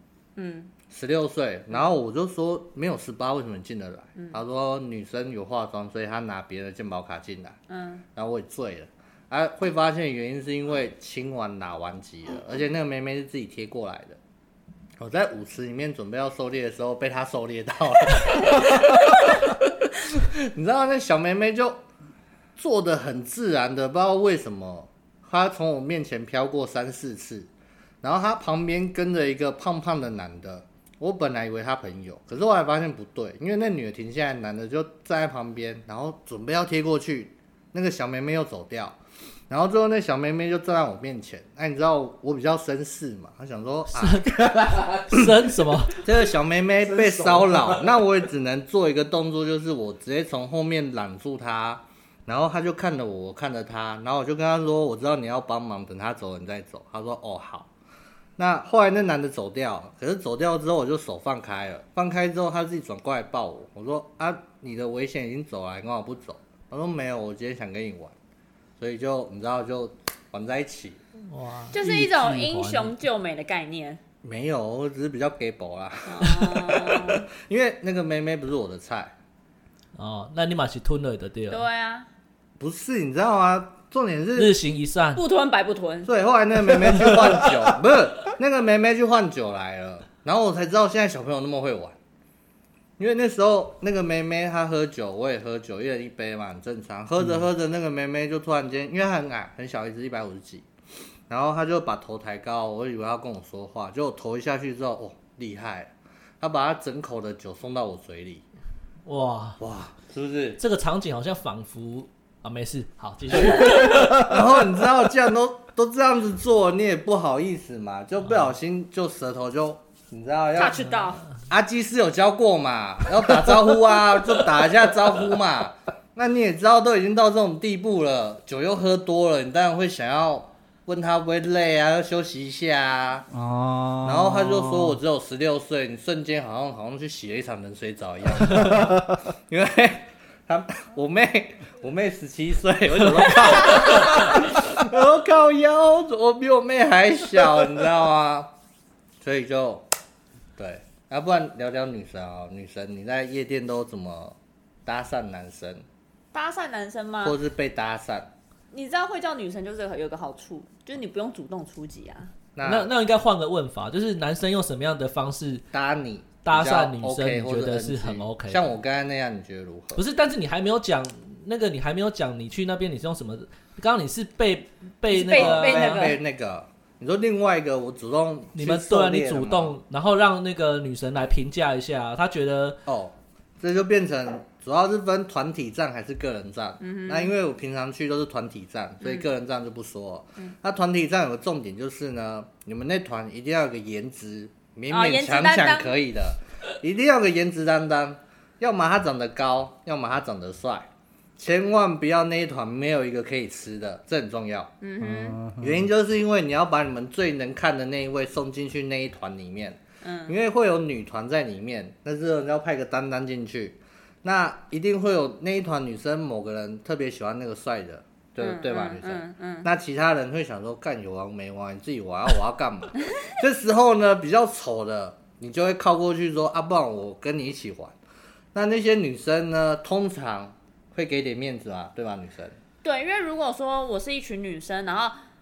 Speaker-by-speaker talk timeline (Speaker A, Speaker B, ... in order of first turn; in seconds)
Speaker A: 0.4-0.7, 4.2-4.4, 7.7-8.0, 71.7-74.0, 76.1-77.3, 81.5-82.1, 85.2-86.1, 120.5-121.2, 156.3-157.4, 158.7-162.3, 175.1-176.2, 186.8-187.3, 189.0-189.3, 194.9-196.0, 204.8-205.4, 210.0-210.3, 218.4-219.7, 232.8-235.2
Speaker B: 0.9-7.6, 8.2-14.2, 15.0-21.8, 22.6-27.5, 28.0-39.0, 39.5-44.5, 46.0-57.7, 58.4-68.1, 68.8-71.0, 74.2-79.1, 82.6-84.5, 86.1-92.0, 93.0-100.7, 101.3-108.4, 109.6-110.6, 113.4-120.9, 121.5-133.3, 134.1-148.5, 149.2-149.9, 150.6-155.8, 157.2-158.3, 162.6-162.9, 165.7-170.0, 175.3-179.8, 182.9-204.7, 205.6-228.0, 228.5-232.6
Speaker C: 43.9-46.0, 71.3-73.0, 80.0-81.6, 84.4-85.2, 109.1-109.6, 110.6-114.3, 162.6-165.7, 166.4-168.7, 169.9-176.1, 178.5-182.8
Speaker D: 46.8-48.0, 133.3-135.0, 138.6-139.0, 205.0-205.9